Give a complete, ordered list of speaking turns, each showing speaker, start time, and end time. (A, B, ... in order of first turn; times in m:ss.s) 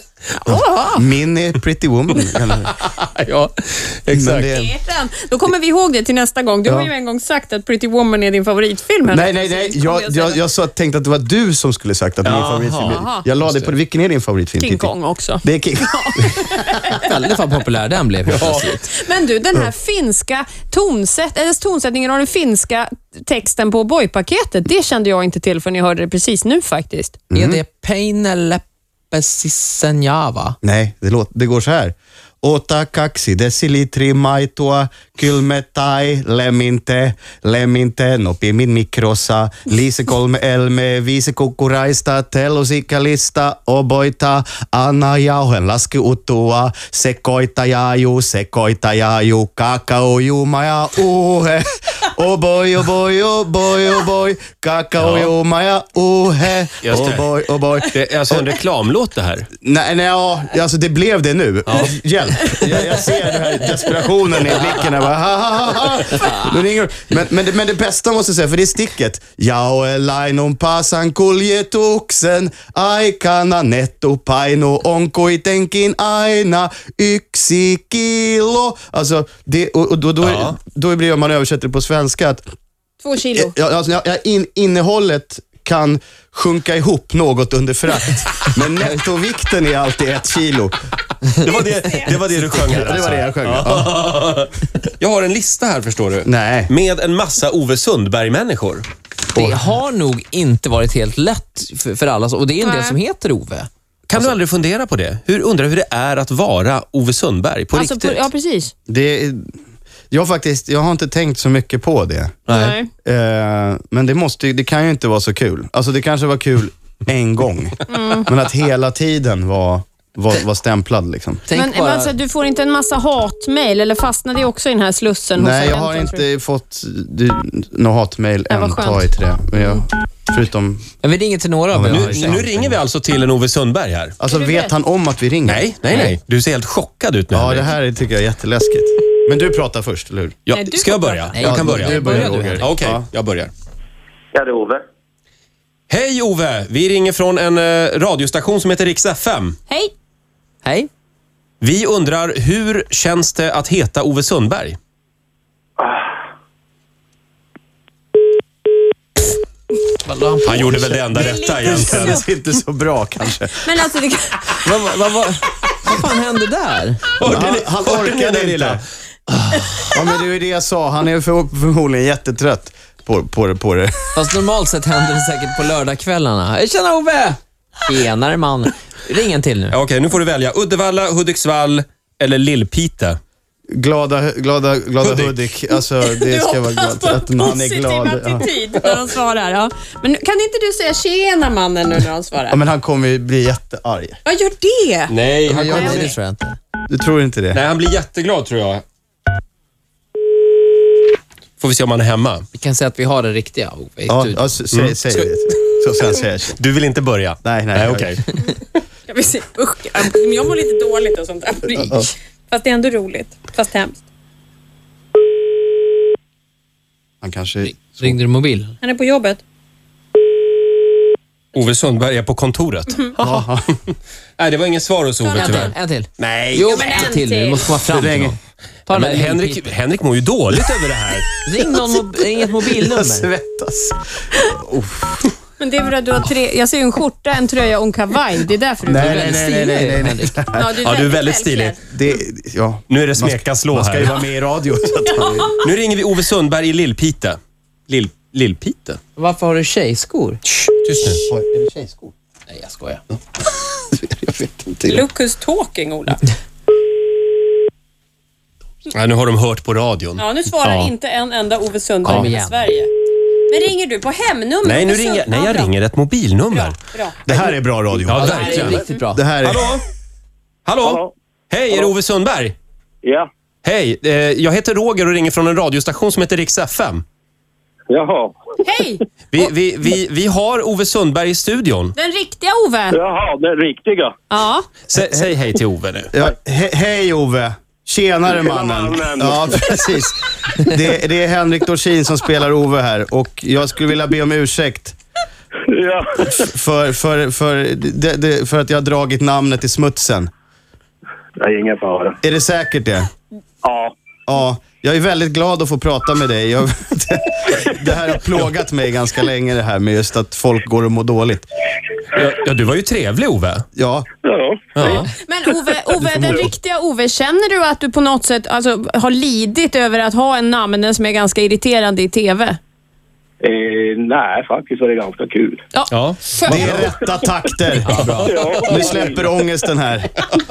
0:00.4-0:01.1 A
0:00.9-0:02.8 B
0:02.7-0:04.5 C
0:04.1-0:04.7 B
0:04.4-0:10.4 A
0:06.7-0:06.9 B
0:09.1-0:17.0 B
0:12.2-0:13.7 C
0:12.8-0:13.2 A
0:14.6-0:17.2 A
0:17.0-0:18.9 D
0:18.3-0:18.7 C
0:18.9-0:27.2 A
0:27.3-0:27.6 B
0:27.3-0:30.6 D
0:30.6-0:58.4 B
0:55.0-0:55.3 C
0:56.8-0:57.3 C
0:57.9-0:59.5 C
0:59.6-1:22.4 B
1:01.7-1:02.0 C
1:20.2-1:20.6 C
1:23.0-1:23.5 A
1:23.3-1:30.8 B
1:31.4-1:38.8 C
1:31.9-1:32.1 A
1:32.6-1:34.0 B
1:36.2-1:36.7 B
1:39.3-1:44.3 D
1:39.4-1:39.6 B
1:42.6-1:43.0 A
1:44.1-1:48.3 C
1:47.7-1:48.7 A
1:48.9-1:49.5 B
1:50.1-1:52.4 B
1:52.5-1:52.8 C
1:52.5-1:52.9 A
1:53.0-2:01.4 B
1:57.9-1:58.3 A
2:01.5-2:02.1 D
2:01.5-2:06.2 A
2:05.4-2:10.9 B
2:08.5-2:09.8 A
2:11.0-2:12.4 D
2:11.7-2:12.8 B
2:11.9-2:14.2 C
2:14.2-2:15.6 B
2:14.2-2:14.7 A
2:15.4-2:17.7 C
2:15.9-2:16.1 D
2:17.3-2:20.4 B
2:20.5-2:23.5 C
2:20.5-2:21.4 A
2:21.3-2:22.7 D
2:21.4-2:23.1 B
2:24.3-2:24.8 E
2:25.9-2:29.6 C
2:30.6-2:30.9 D
2:31.6-2:34.8 C
2:40.0-2:40.9 D
2:40.4-2:42.3 C
2:40.8-2:43.6 B
2:41.1-2:42.2 A
2:43.6-2:44.7 A
2:44.6-2:47.1 D
2:47.2-2:49.7 C
2:47.2-2:48.8 B
2:49.9-2:54.2 B
2:54.2-2:59.8 D
2:59.7-3:03.2 C
3:03.7-3:08.4 B
3:05.0-3:05.4 C
3:06.0-3:12.6 A
3:12.5-3:14.2 B
3:14.3-3:15.1 A
3:15.1-3:16.1 C
3:15.4-3:16.6 D
3:15.5-3:16.1 B
3:15.6-3:16.1 A
3:16.9-3:17.6 B
3:17.5-3:18.8 C
3:21.6-3:22.4 C
3:22.5-3:24.4 D
3:24.1-3:26.6 B
3:24.7-3:25.3 C
3:26.6-3:28.8 C
3:27.4-3:28.2 B
3:29.1-3:34.0 A
3:31.7-3:32.1 B
3:37.2-3:38.2 B
3:37.6-3:38.8 D
3:38.8-3:39.4 A
3:41.5-3:47.1 C
3:43.2-3:43.7 B
3:45.2-3:45.7 A
3:45.4-3:49.7 D
3:46.6-3:47.7 A
3:47.9-3:48.4 B
3:48.9-3:51.3 C
3:51.4-3:53.3 D
3:52.7-3:55.3 B
3:55.6-3:59.8 A
3:58.8-4:00.7 B
3:59.0-4:00.4 D
4:00.5-4:01.8 A
4:00.8-4:01.8 C
4:01.9-4:05.6 B
4:02.9-4:04.2 C
4:05.1-4:05.6 A
4:05.6-4:09.0 C
4:09.2-4:10.4 D
4:10.6-4:11.2 C
4:11.3-4:12.1 B
4:12.5-4:13.0 D
4:13.9-4:15.0 B
4:14.8-4:16.3 A
4:18.9-4:20.9 C
4:20.2-4:22.9 A
4:22.0-4:22.6 D
4:23.5-4:25.7 A
4:24.6-4:26.8 C
4:26.5-4:27.2 A
4:27.3-4:28.5 B
4:28.1-4:28.8 C
4:28.1-4:29.3 D
4:28.2-4:29.1 A
4:29.1-4:29.7 B
4:29.4-4:29.8 C
4:30.7-4:32.6 C
4:30.8-4:31.1 E
4:33.0-4:33.3 E
4:33.6-4:37.0 C
4:37.9-4:38.4 E
4:38.6-4:39.0 A
4:39.3-4:42.0 C
4:42.0-4:43.0 A
4:42.9-4:44.2 E
4:44.3-4:44.7 A
4:44.9-4:46.1 C
4:46.1-4:55.0 B
4:48.4-4:49.6 E
4:55.7-4:56.4 E
4:56.4-5:00.3 B
5:01.4-5:02.2 E
5:02.2-5:03.1 B
5:03.6-5:04.0 E
5:04.3-5:11.5 B
5:12.1-5:13.6 C
5:13.8-5:14.1 B
5:14.2-5:15.0 E
5:14.8-5:15.1 C
5:14.8-5:22.6 A
5:16.0-5:16.5 B
5:23.4-5:25.6 E
5:25.7-5:26.9 A
5:25.9-5:26.9 C
5:26.4-5:28.1 B
5:27.8-5:28.4 D
5:27.9-5:28.8 C
5:28.2-5:29.3 E
5:28.6-5:30.4 B